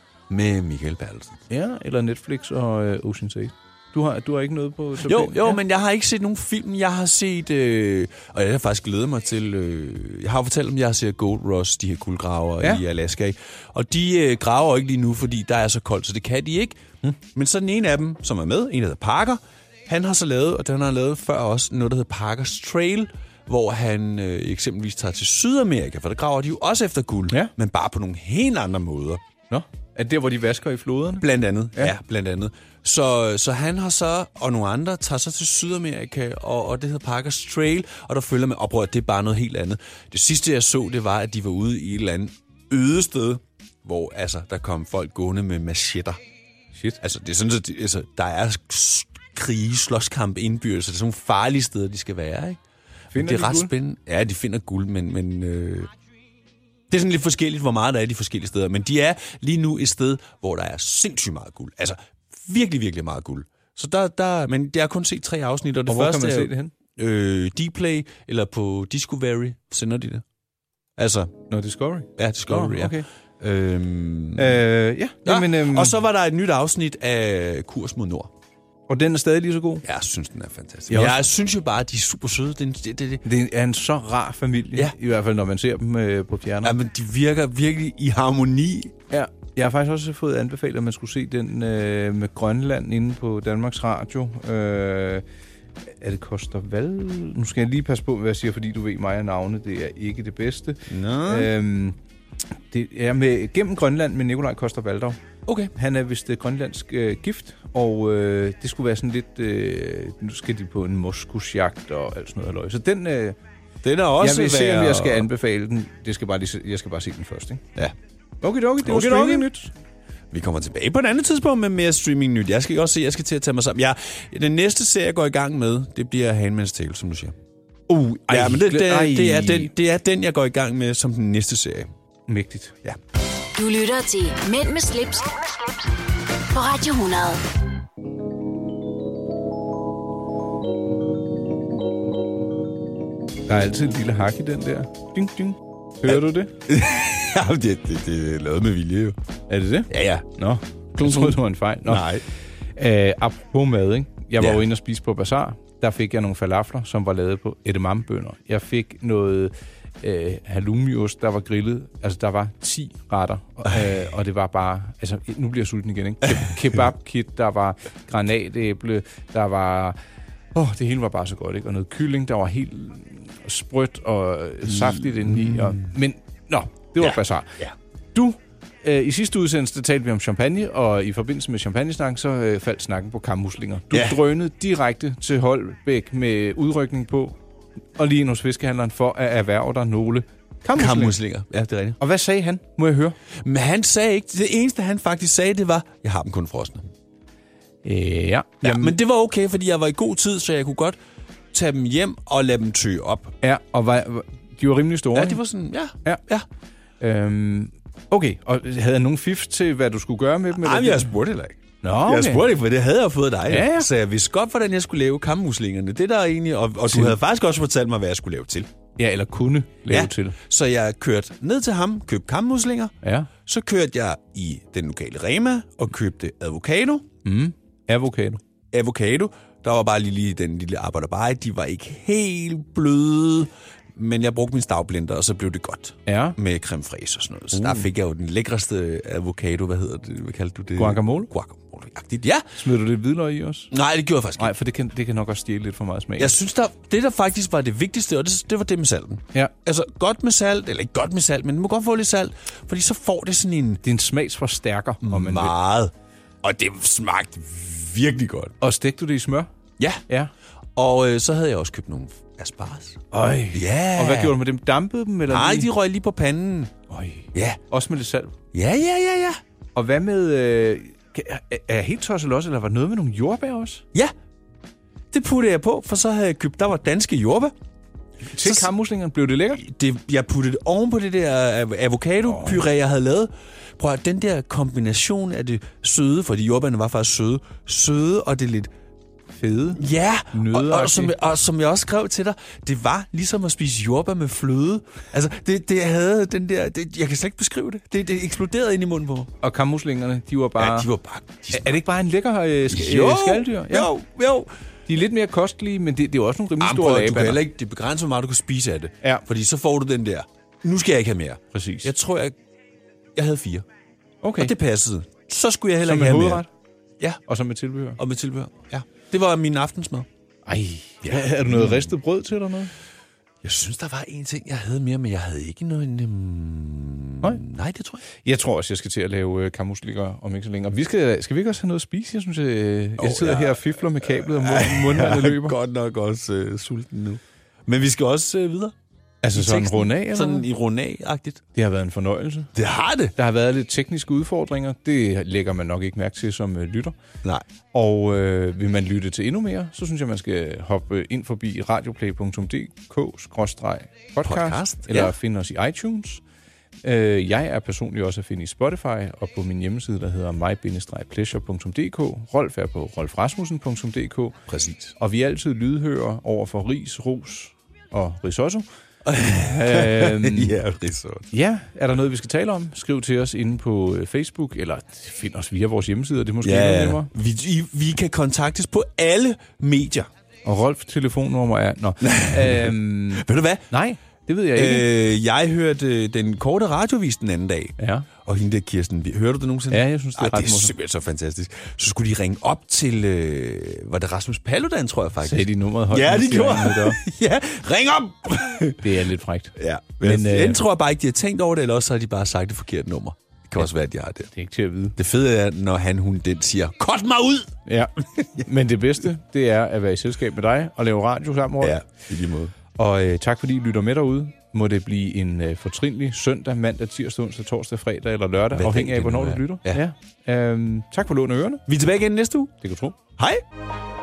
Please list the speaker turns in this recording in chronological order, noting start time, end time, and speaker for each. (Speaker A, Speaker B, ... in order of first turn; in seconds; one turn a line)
Speaker A: 0.3-1.4
Speaker B: 1.5-5.6
Speaker A: 5.0-29.2
Speaker B: 29.5-31.9
Speaker A: 31.2-46.2
Speaker B: 46.8-47.0
Speaker A: 47.0-52.6
Speaker B: 53.1-53.7
Speaker A: 53.1-55.9
Speaker A: 56.9-70.2
Speaker B: 65.9-66.7
Speaker A: 71.0-71.3
Speaker B: 71.5-73.1
Speaker A: 72.2-74.6
Speaker B: 74.4-76.0
Speaker A: 75.2-78.3
Speaker B: 78.9-79.8
Speaker A: 79.8-83.2
Speaker B: 80.9-81.2
Speaker B: 83.2-86.8
Speaker A: 86.6-89.0
Speaker B: 89.1-95.2
Speaker B: 96.0-102.0
Speaker A: 100.9-101.5
Speaker B: 102.7-105.2
Speaker A: 105.5-105.7
Speaker B: 105.7-113.4
Speaker A: 113.8-115.3
Speaker B: 114.2-117.6
Speaker B: 118.4-119.7
Speaker A: 118.8-119.5
Speaker A: 120.3-127.3
Speaker B: 127.9-129.7
Speaker A: 128.3-131.9
Speaker B: 132.3-132.8
Speaker C: 133.6-135.8
Speaker C: 136.5-137.4
Speaker B: 143.5-146.5
Speaker A: 146.1-149.2
Speaker B: 149.5-152.1
Speaker A: 149.9-150.3
Speaker A: 151.0-152.2
Speaker B: 152.8-170.0
Speaker B: 170.5-177.6
Speaker A: 174.7-175.9
Speaker A: 177.0-177.7
Speaker B: 178.1-187.3
Speaker A: 183.9-184.2
Speaker B: 188.0-191.2
Speaker A: 190.8-192.0
Speaker B: 192.0-193.2
Speaker A: 193.4-196.9
Speaker B: 197.8-199.0
Speaker A: 198.6-201.0
Speaker A: 201.5-203.4
Speaker B: 203.4-205.4
Speaker A: 205.1-206.5
Speaker B: 207.0-211.1
Speaker A: 210.6-218.7
Speaker B: 211.8-212.5
Speaker B: 213.5-213.9
Speaker B: 216.9-217.2
Speaker B: 219.0-220.4
Speaker A: 219.9-227.1
Speaker B: 223.0-223.3
Speaker B: 227.2-228.4
Speaker A: 228.7-242.5
Speaker B: 236.1-236.4
Speaker B: 237.5-237.9
Speaker B: 240.8-241.3
Speaker B: 242.6-243.7
Speaker A: 243.7-244.5
Speaker B: 244.4-246.4
Speaker A: 246.2-253.8
Speaker B: 253.8-255.6
Speaker A: 255.0-258.6
Speaker B: 258.6-259.5
Speaker A: 260.8-264.4
Speaker B: 263.1-265.7
Speaker A: 265.3-266.7
Speaker B: 266.9-268.3
Speaker A: 267.3-267.6
Speaker A: 268.5-269.4
Speaker B: 269.8-273.9
Speaker A: 275.1-277.5
Speaker B: 278.3-279.6
Speaker A: 278.4-278.7
Speaker A: 279.5-288.7
Speaker B: 282.2-282.6
Speaker B: 289.4-291.1
Speaker A: 289.8-299.3
Speaker B: 299.4-300.9
Speaker A: 300.6-301.8
Speaker B: 301.5-303.9
Speaker A: 302.7-304.5
Speaker B: 304.9-307.4
Speaker A: 306.6-312.4
Speaker B: 311.5-311.9
Speaker A: 313.2-313.6
Speaker B: 314.2-314.5
Speaker A: 314.4-316.4
Speaker B: 315.8-316.5
Speaker B: 317.3-318.0
Speaker A: 318.0-320.1
Speaker B: 320.5-322.7
Speaker A: 321.0-321.9
Speaker A: 323.4-328.0
Speaker B: 328.2-335.6
Speaker A: 333.0-338.8
Speaker B: 339.2-340.5
Speaker A: 339.3-341.4
Speaker B: 341.6-342.5
Speaker A: 342.6-343.1
Speaker B: 343.2-346.9
Speaker B: 347.7-356.2
Speaker A: 354.2-355.1
Speaker B: 356.8-364.4
Speaker A: 364.5-364.9
Speaker B: 365.0-368.7
Speaker A: 369.1-371.3
Speaker B: 369.2-370.6
Speaker B: 371.3-377.1
Speaker A: 376.4-380.1
Speaker B: 380.4-384.9
Speaker A: 382.0-383.7
Speaker A: 384.5-398.9
Speaker B: 387.8-388.1
Speaker B: 389.7-390.7
Speaker B: 395.2-397.0
Speaker B: 398.8-400.6
Speaker A: 399.6-404.3
Speaker B: 404.3-405.0
Speaker A: 405.0-407.6
Speaker B: 407.7-411.8
Speaker A: 411.6-412.5
Speaker B: 412.8-421.6
Speaker A: 418.5-419.8
Speaker A: 421.7-422.5
Speaker B: 422.6-423.0
Speaker A: 423.2-423.4